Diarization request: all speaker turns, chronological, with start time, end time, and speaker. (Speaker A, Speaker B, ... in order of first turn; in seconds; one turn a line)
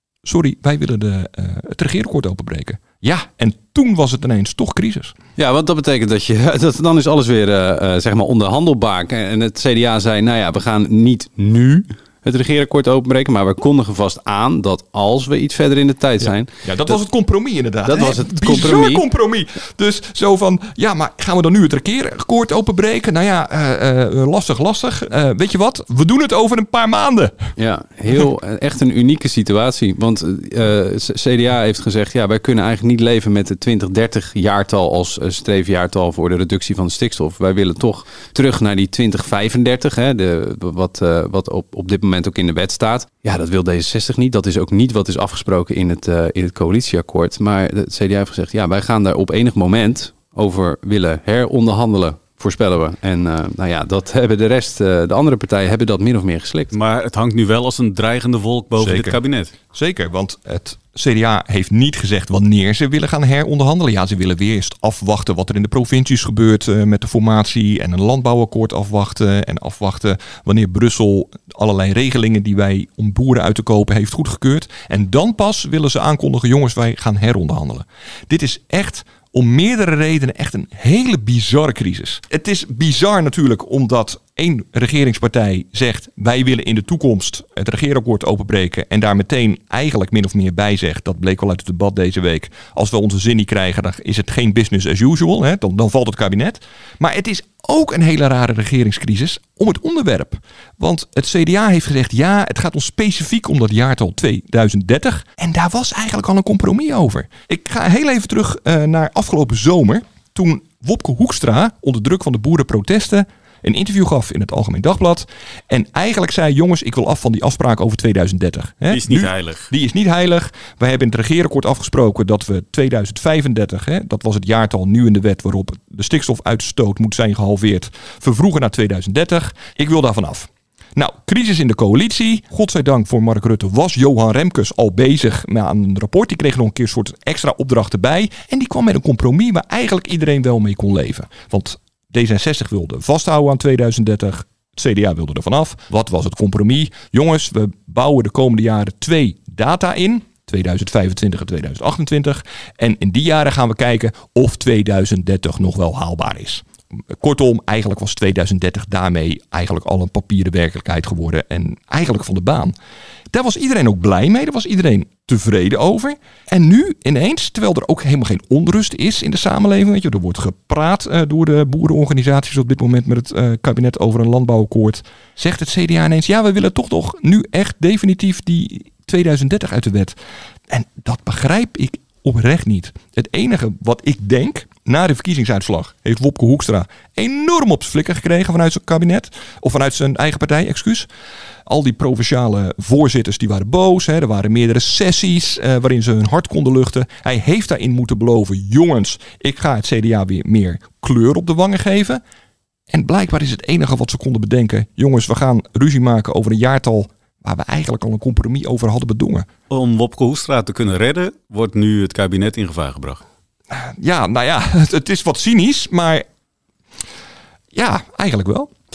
Speaker A: 0.2-5.2
Speaker B: 5.4-17.0
Speaker A: 16.2-27.4
Speaker B: 17.9-19.0
Speaker B: 27.6-56.7
Speaker C: 56.7-59.5
Speaker A: 58.8-59.2
Speaker A: 59.7-162.8
Speaker C: 118.9-119.7
Speaker A: 163.3-180.2
Speaker A: 180.7-191.1
Speaker A: 191.7-202.2
Speaker A: 202.9-209.5
Speaker C: 209.7-213.2
Speaker A: 213.7-216.3
Speaker A: 217.7-218.7